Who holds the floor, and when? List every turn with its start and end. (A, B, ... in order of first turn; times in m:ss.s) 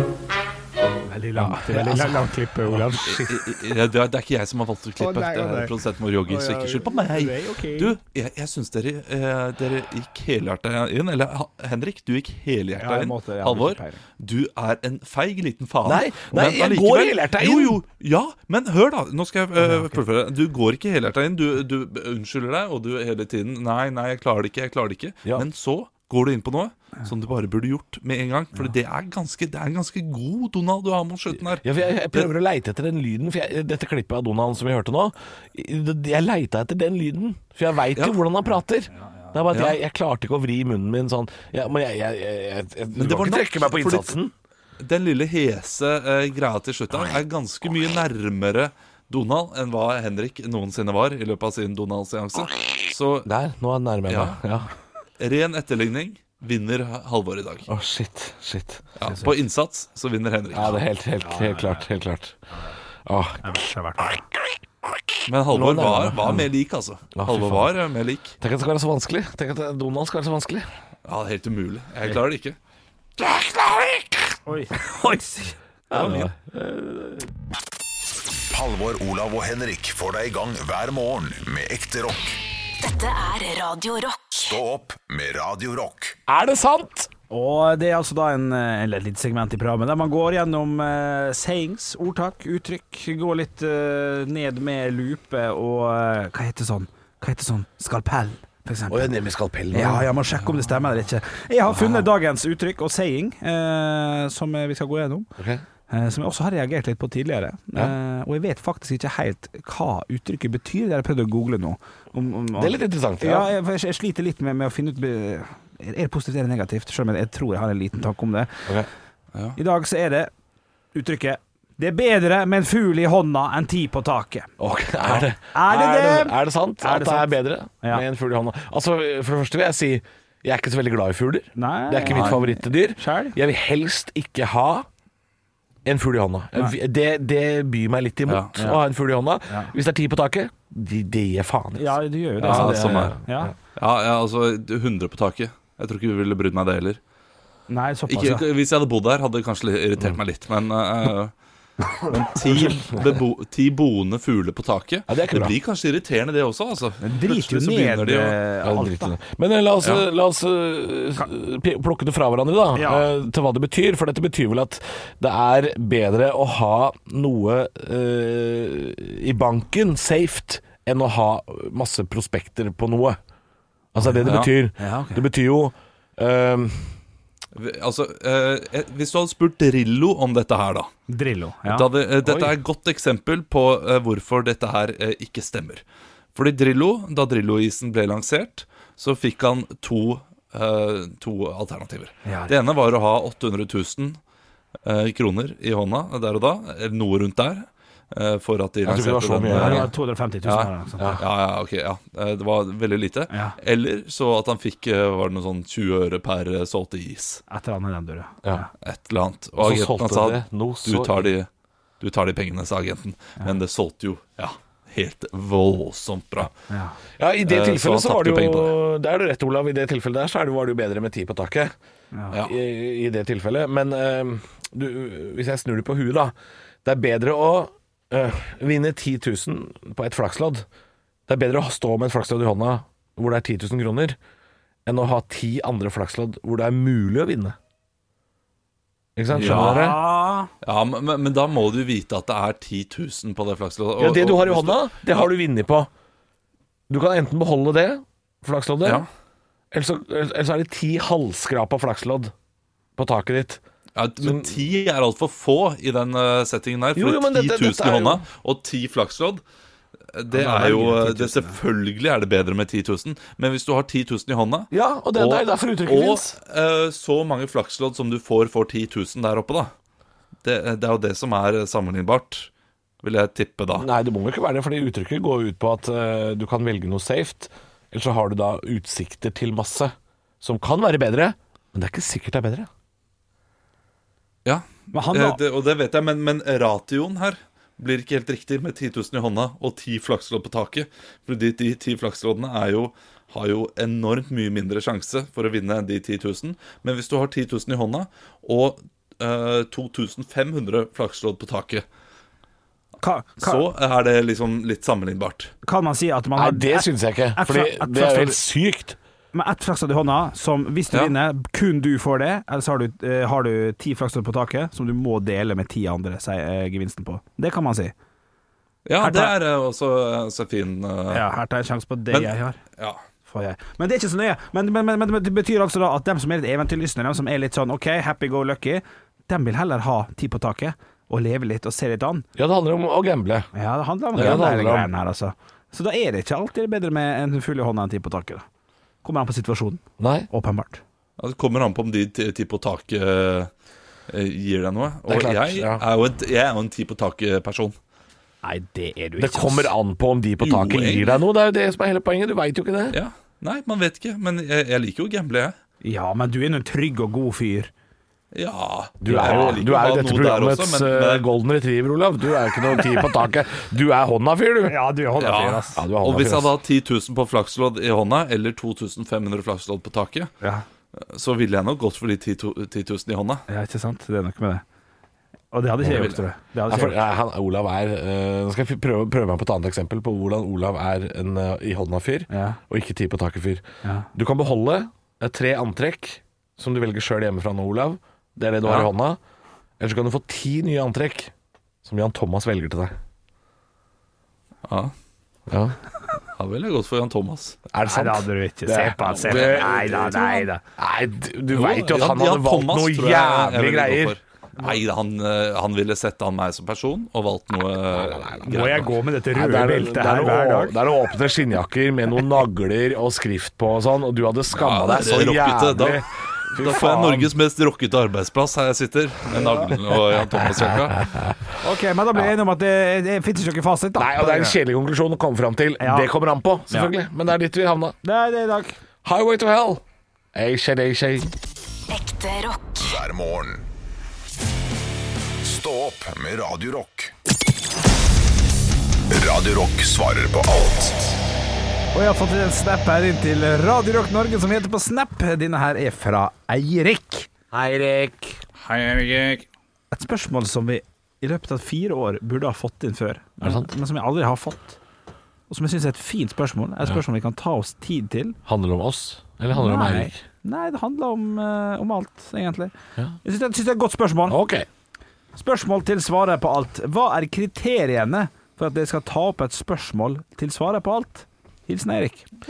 0:01.0-0:03.4 A
0:01.4-0:02.2 B
0:02.9-0:32.3 C
0:05.0-0:05.7 A
0:06.2-0:08.0 A
0:12.7-0:14.0 A
0:15.8-0:17.8 B
0:19.6-0:19.9 A
0:31.6-0:44.3 B
0:39.0-0:39.4 A
0:39.5-0:39.8 C
0:42.9-0:44.1 C
0:44.8-0:53.3 C
0:53.2-0:54.7 B
0:54.1-0:54.4 C
0:55.2-0:57.7 C
0:57.7-0:58.8 B
0:59.0-1:00.8 C
0:59.0-0:59.3 A
1:00.5-1:02.4 B
1:01.2-1:01.9 A
1:03.0-1:06.5 B
1:03.4-1:04.2 A
1:05.3-1:08.4 C
1:07.1-1:07.7 B
1:08.4-1:10.7 B
1:11.0-1:12.6 C
1:13.2-1:15.2 B
1:14.4-1:15.6 A
1:15.9-1:17.3 B
1:15.9-1:16.2 C
1:18.5-1:22.4 D
1:22.8-1:24.2 E
1:24.3-1:26.2 D
1:26.3-1:27.1 B
1:27.3-1:39.1 A
1:38.9-1:40.1 B
1:39.7-1:45.3 A
1:45.4-1:45.6 B
1:45.9-1:58.7 A
1:52.6-1:53.5 B
1:59.6-2:00.3 A
2:00.9-2:04.5 A
2:04.6-2:14.9 B
2:05.1-2:08.0 A
2:11.6-2:13.4 A
2:12.1-2:12.4 C
2:15.8-2:23.5 B
2:18.3-2:18.5 C
2:19.5-2:19.7 A
2:21.8-2:23.5 A
2:22.4-2:23.2 C
2:23.8-2:27.0 C
2:27.7-2:28.5 A
2:28.1-2:31.3 C
2:32.0-2:38.4 C
2:32.4-2:33.1 B
2:35.1-2:35.6 B
2:37.0-2:39.2 A
2:38.6-2:53.2 B
2:42.7-2:43.0 A
2:53.9-2:56.9 B
2:54.0-2:55.2 A
2:54.2-2:54.5 C
2:57.5-3:00.9 C
3:01.1-3:01.9 A
3:01.6-3:05.8 C
3:02.2-3:02.6 B
3:06.3-3:14.2 C
3:12.2-3:12.5 A
3:14.8-3:19.9 C
3:18.8-3:19.9 B
3:19.5-3:21.2 A
3:20.4-3:27.4 C
3:23.3-3:23.6 A
3:27.5-3:28.7 A
3:28.8-3:31.5 C
3:29.6-3:31.3 B
3:32.0-3:36.5 C
3:36.7-3:37.0 A
3:37.2-3:41.7 B
3:37.4-3:38.8 C
3:42.1-3:42.4 A
3:42.4-3:50.6 B
3:51.3-3:54.2 B
3:54.8-3:57.6 B
3:59.2-4:00.0 B
3:59.3-3:59.8 C
3:59.3-4:00.5 A
4:00.6-4:04.9 C
4:04.0-4:05.9 B
4:06.9-4:09.0 B
4:09.7-4:12.3 B
4:13.0-4:13.6 B
4:14.0-4:19.4 C
4:14.2-4:14.6 B
4:16.9-4:18.2 B
4:20.1-4:29.7 C
4:20.3-4:21.6 A
4:24.7-4:26.4 B
4:30.4-4:32.5 C
4:33.0-4:33.9 C
4:33.8-4:42.7 B
4:44.4-5:01.8 C
4:44.9-4:45.4 A
5:03.0-5:03.6 A
5:03.4-5:05.5 C
5:05.6-5:08.4 A
5:06.3-5:09.0 B
5:09.3-5:17.9 A
5:18.8-5:21.2 C
5:19.0-5:19.3 A
5:21.1-5:22.6 A
5:22.1-5:23.0 C
5:23.2-5:32.2 A
5:32.4-5:33.5 B
5:33.5-5:38.4 A
5:34.1-5:34.9 B
5:39.0-5:40.8 A
5:40.0-5:40.3 B
5:41.2-5:43.5 C
5:44.1-5:47.7 C
5:45.1-5:45.8 B
5:48.4-5:49.7 A
5:49.2-5:53.0 B
5:50.4-5:51.2 C
5:52.9-5:55.6 C
5:55.8-5:57.7 A
5:58.3-6:01.3 C
5:59.0-6:04.9 B
5:59.1-5:59.6 A
6:04.7-6:05.8 A
6:05.2-6:10.3 C
6:05.7-6:06.5 B
6:10.9-6:13.4 C
6:13.5-6:14.6 A
6:15.5-6:17.0 A
6:15.8-6:16.2 C
6:16.7-6:29.2 B
6:22.3-6:22.6 A
6:23.8-6:24.1 A
6:29.8-6:33.0 B
6:34.6-6:34.9 C
6:35.5-6:35.8 B
6:36.4-6:37.6 C
6:37.7-6:44.2 B
6:37.8-6:40.6 A
6:39.3-6:39.6 C
6:41.5-6:48.9 C
6:47.9-6:57.3 B
6:48.4-6:50.8 A
6:54.5-6:56.0 C
6:56.6-7:01.1 C
6:59.3-6:59.6 A
7:00.1-7:01.4 B
7:01.6-7:04.6 A
7:04.0-7:07.9 B
7:05.8-7:06.1 A
7:08.0-7:08.8 A
7:09.0-7:09.8 B
7:10.3-7:11.3 B
7:11.9-7:13.0 E
7:12.8-7:13.6 D
7:15.4-7:17.1 D
7:19.1-7:21.1 D
7:21.9-7:27.3 A
7:27.5-7:28.4 B
7:28.6-7:29.4 C
7:29.9-7:34.8 A
7:33.4-7:33.7 B
7:35.5-7:38.4 A
7:38.4-7:40.2 B
7:39.5-7:42.7 A
7:43.2-7:44.4 A
7:44.3-7:44.7 B
7:45.3-7:52.3 A